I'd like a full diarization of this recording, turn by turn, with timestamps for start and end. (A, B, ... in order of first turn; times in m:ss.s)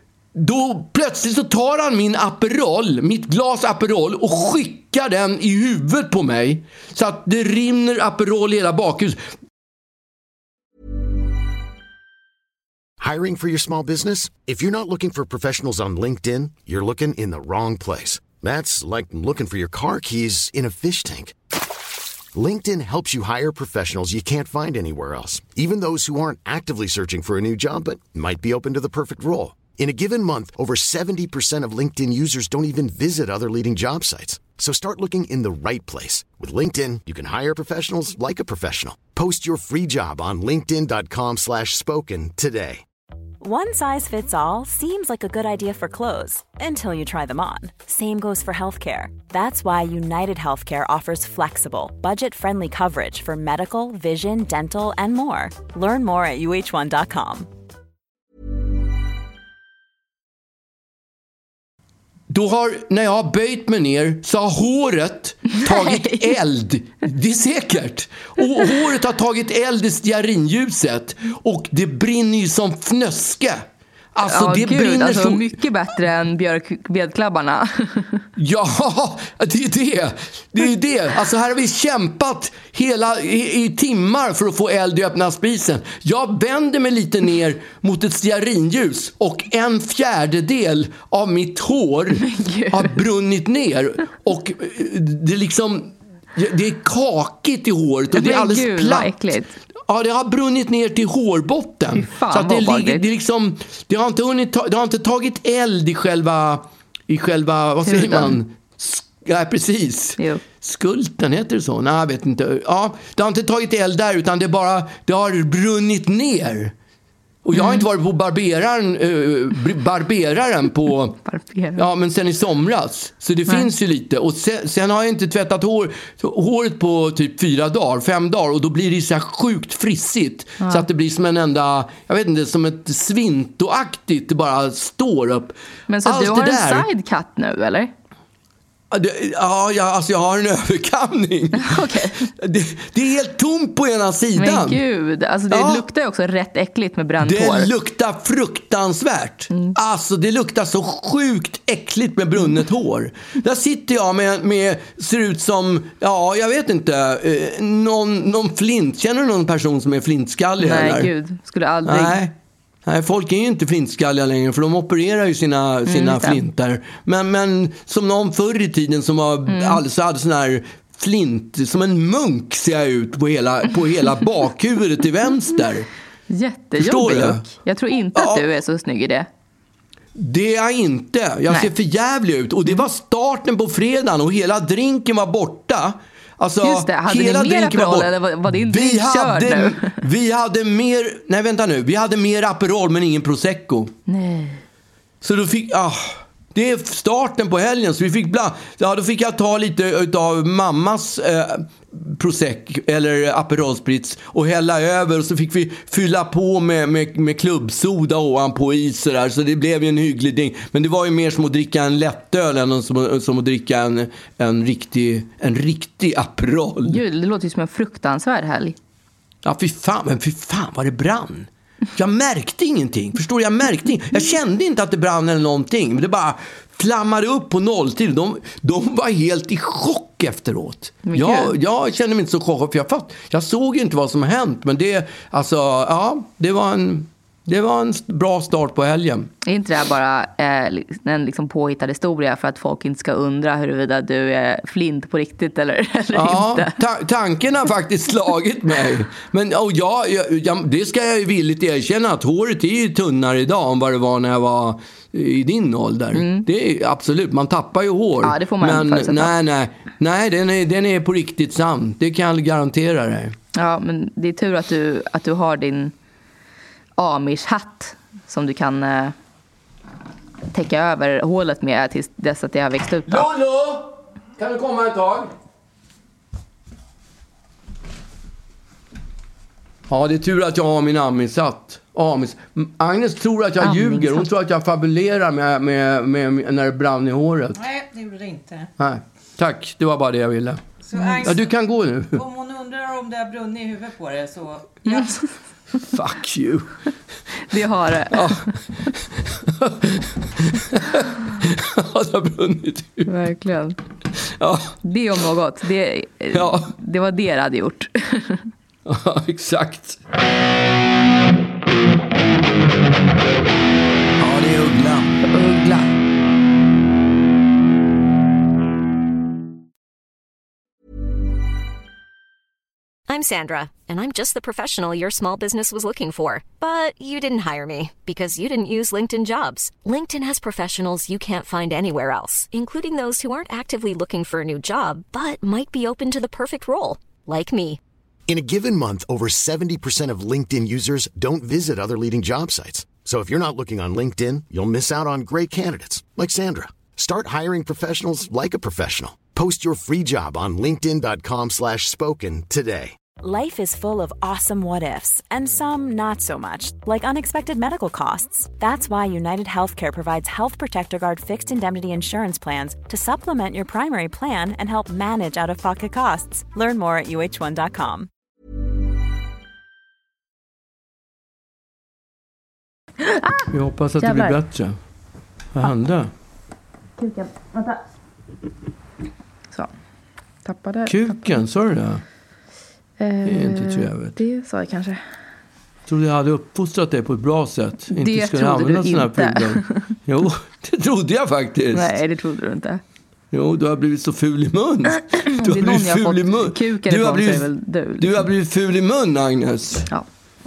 0:00.4-0:09.2 A
0:13.0-0:21.4 B
0:22.3-0:42.8 B
0:43.4-0:57.5 C
1:02.3-1:13.6 A
1:05.5-1:06.4 D
1:14.2-1:15.6 A
1:14.3-1:18.2 D
1:18.4-1:39.2 A
1:32.2-1:33.0 D
1:38.1-1:39.6 D
1:39.9-1:56.7 A
1:42.0-1:43.0 D
1:47.8-1:48.4 D
1:57.4-2:01.2 A
1:57.5-1:57.9 D
2:01.3-2:01.8 D
2:01.8-2:16.9 A
2:10.6-2:10.9 D
2:15.9-2:17.9 D
2:18.9-2:24.8 A
2:21.6-2:22.3 D
2:24.4-2:27.7 D
2:25.5-2:25.8 A
2:27.2-2:41.1 A
2:40.6-2:42.2 D
2:41.9-2:42.3 A
2:42.9-2:55.9 A
2:45.9-2:46.4 D
2:49.5-2:49.8 D
2:56.3-2:59.3 D
2:56.8-2:57.5 A
2:58.2-2:58.4 A
3:00.2-3:13.9 A
3:06.6-3:10.0 D
3:14.1-3:14.6 D
3:15.2-3:37.0 A
3:36.9-3:38.8 D
3:39.4-3:59.3 A
3:51.1-3:51.5 D
3:59.4-4:06.8 D
4:06.1-4:23.4 A
4:16.2-4:16.4 D
4:18.2-4:19.3 D
4:23.6-4:25.9 D
4:27.0-4:29.2 D
4:30.5-4:33.3 D
4:33.1-4:35.3 A
4:39.9-4:47.6 A
4:43.6-4:44.3 D
4:47.6-4:48.7 E
4:48.8-4:50.6 A
4:50.8-4:51.5 E
4:51.2-4:52.2 A
4:52.1-4:55.3 E
4:54.9-4:55.3 D
4:55.9-4:56.8 A
4:57.5-4:58.6 D
4:58.1-5:03.1 A
5:03.1-5:03.8 D
5:04.4-5:04.8 A
5:04.8-5:08.5 D
5:06.3-5:06.7 A
5:08.9-5:10.0 A
5:14.2-5:15.2 A
5:15.3-5:15.9 D
5:23.1-5:37.8 F
5:38.3-5:53.0 B
5:53.2-6:08.1 C
6:13.0-6:13.5 D
6:13.5-6:14.8 A
6:14.0-6:14.4 D
6:15.5-6:16.1 A
6:17.0-6:17.8 D
6:20.4-6:21.4 D
6:20.9-6:22.0 A
6:23.0-6:25.0 D
6:23.3-6:24.2 A
6:25.9-6:32.0 A
6:27.9-6:29.9 D
6:31.7-6:32.8 D
6:33.3-6:39.9 A
6:35.0-6:38.3 D